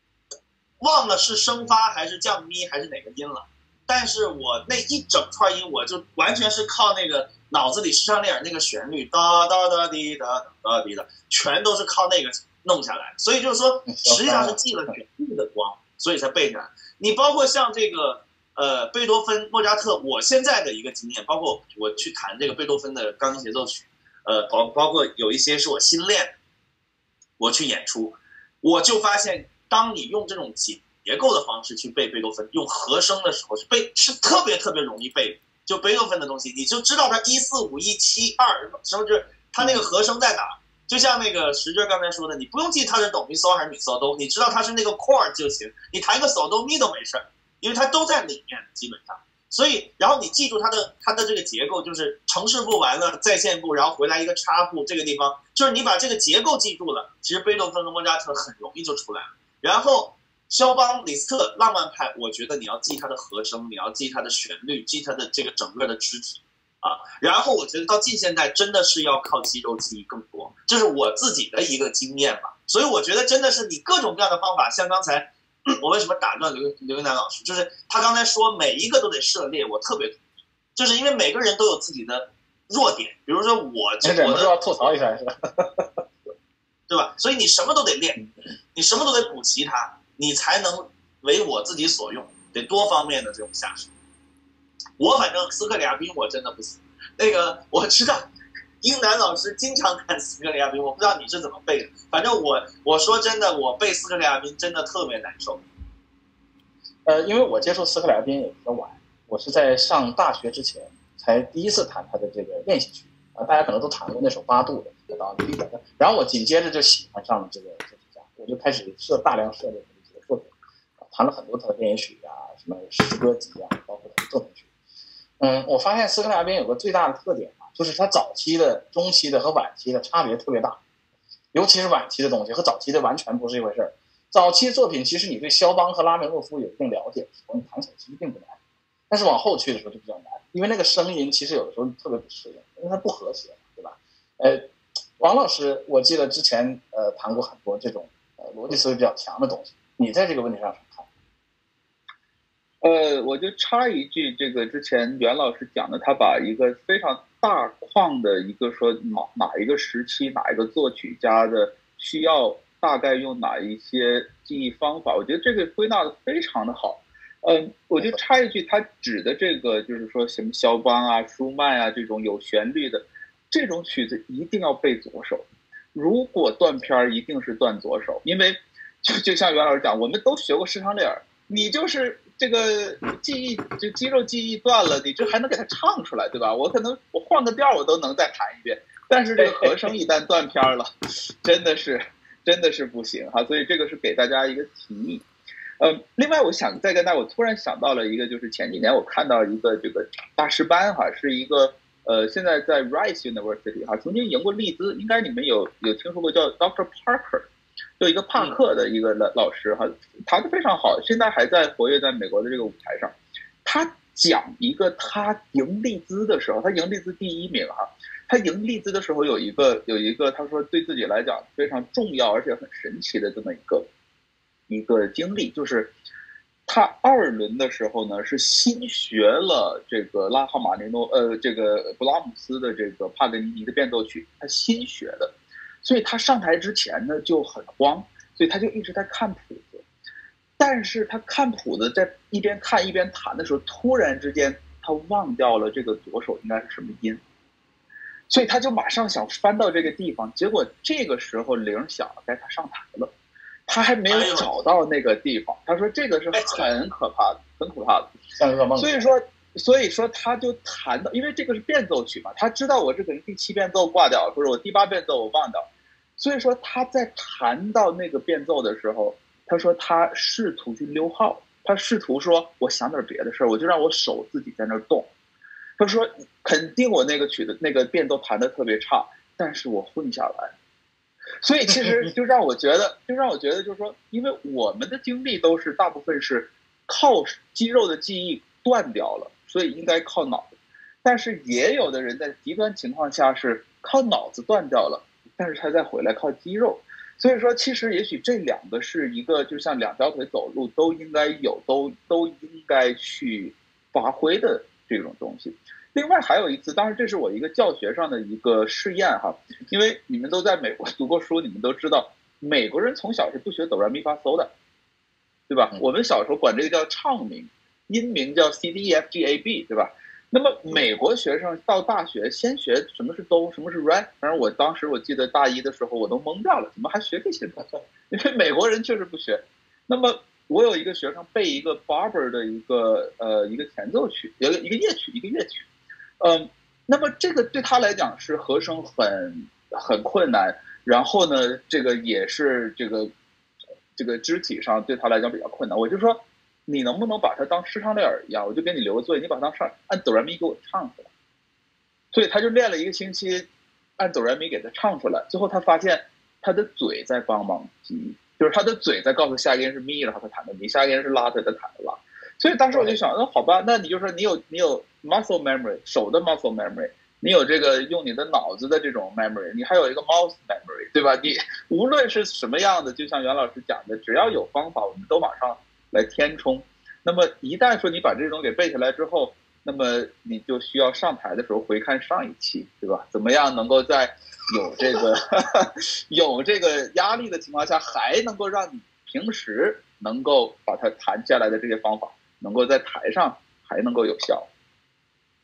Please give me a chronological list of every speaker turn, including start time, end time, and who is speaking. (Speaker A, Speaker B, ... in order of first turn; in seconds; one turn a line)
Speaker A: 0.8-26.3
Speaker B: 13.9-14.6
Speaker A: 27.4-80.2
Speaker B: 39.6-39.9
Speaker A: 80.7-84.8
Speaker B: 84.0-86.0
Speaker A: 86.9-93.9
Speaker A: 95.0-98.3
Speaker A: 98.8-105.6
Speaker B: 107.0-124.6
Speaker B: 125.4-130.8
Speaker B: 131.5-138.6
Speaker B: 139.1-144.6
Speaker B: 145.2-151.1
Speaker C: 152.8-190.9
Speaker B: 189.4-189.9
Speaker C: 191.4-195.2
Speaker C: 195.8-207.5
Speaker C: 208.0-223.9
Speaker C: 224.7-225.9
Speaker C: 226.7-239.8
Speaker C: 240.6-247.2
Speaker C: 248.3-253.1
Speaker C: 253.7-258.1
Speaker A: 254.1-254.5
Speaker A: 256.3-256.7
Speaker B: 258.3-259.0
Speaker C: 258.8-275.1
Speaker C: 275.8-280.5
Speaker C: 281.4-314.5
Speaker C: 315.5-335.6
Speaker C: 336.2-343.1
Speaker C: 343.9-351.1
Speaker C: 352.1-394.5
Speaker B: 362.7-363.0